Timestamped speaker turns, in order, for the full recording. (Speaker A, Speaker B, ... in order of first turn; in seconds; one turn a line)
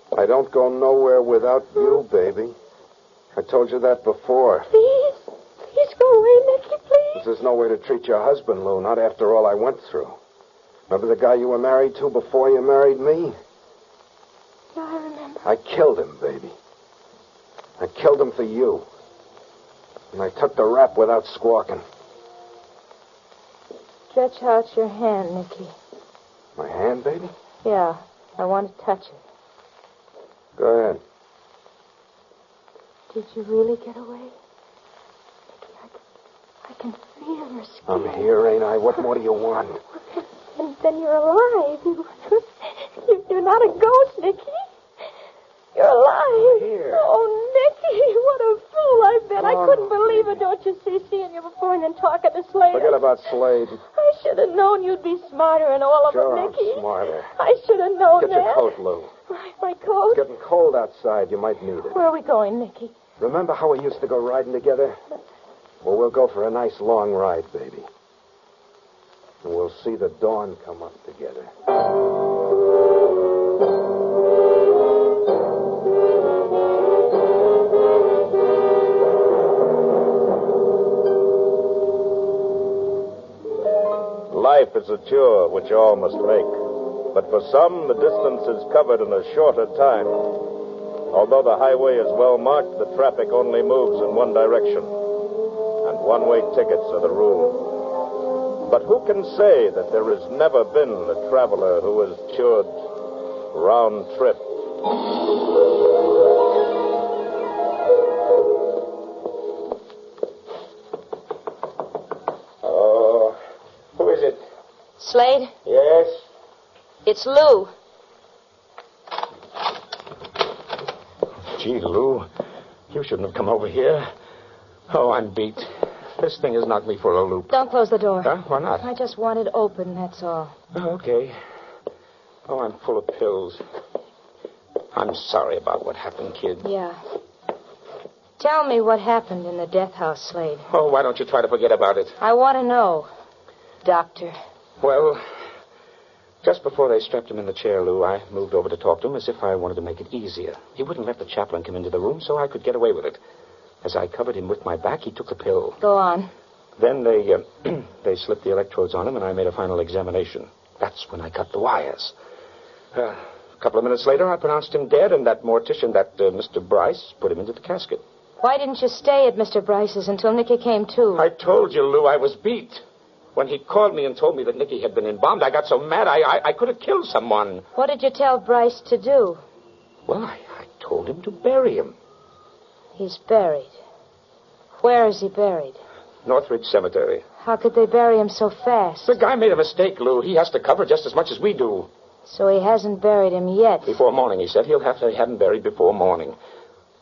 Speaker A: 0.1-2.6
Speaker A: 3.4-4.7
Speaker B: 4.7-7.2
Speaker A: 7.1-10.2
Speaker A: 10.9-13.4
Speaker B: 14.8-15.5
Speaker A: 15.4-16.5
Speaker A: 17.8-18.9
Speaker A: 20.1-21.8
Speaker B: 24.1-25.8
Speaker A: 26.6-27.3
Speaker B: 27.6-29.2
Speaker A: 30.6-31.0
Speaker B: 33.1-34.4
Speaker B: 35.6-36.0
Speaker B: 36.6-38.3
Speaker A: 37.9-39.8
Speaker B: 40.6-44.7
Speaker B: 45.8-53.3
Speaker A: 46.5-47.0
Speaker A: 49.4-50.4
Speaker A: 52.7-53.8
Speaker B: 53.9-58.7
Speaker A: 56.1-57.3
Speaker A: 58.2-59.1
Speaker B: 59.3-60.2
Speaker A: 60.1-62.0
Speaker B: 61.9-62.9
Speaker A: 63.2-65.0
Speaker A: 65.8-67.9
Speaker A: 69.4-71.5
Speaker C: 84.3-86.5
Speaker C: 87.1-90.3
Speaker C: 91.1-94.9
Speaker C: 95.8-97.7
Speaker C: 98.7-102.8
Speaker C: 103.5-104.4
Speaker D: 112.6-113.4
Speaker D: 114.0-114.4
Speaker B: 115.0-115.5
Speaker D: 115.7-116.2
Speaker B: 117.0-117.7
Speaker D: 121.5-122.3
Speaker D: 122.9-124.1
Speaker D: 124.9-127.6
Speaker B: 127.5-130.6
Speaker D: 128.2-128.9
Speaker D: 130.7-131.4
Speaker D: 132.5-133.6
Speaker D: 134.9-136.7
Speaker B: 136.6-137.0
Speaker B: 138.4-140.7
Speaker D: 140.7-142.2
Speaker B: 142.2-143.1
Speaker B: 143.8-144.3
Speaker D: 144.8-145.2
Speaker D: 146.4-153.2
Speaker D: 153.8-155.8
Speaker B: 155.8-156.3
Speaker D: 156.8-162.1
Speaker D: 162.9-168.0
Speaker B: 168.4-171.2
Speaker D: 171.2-172.8
Speaker D: 173.3-177.6
Speaker B: 177.8-179.4
Speaker D: 180.1-181.9
Speaker B: 182.9-183.8
Speaker B: 184.8-185.8
Speaker D: 186.2-187.2
Speaker B: 187.4-189.2
Speaker D: 189.1-191.9
Speaker B: 192.3-194.0
Speaker D: 193.9-196.4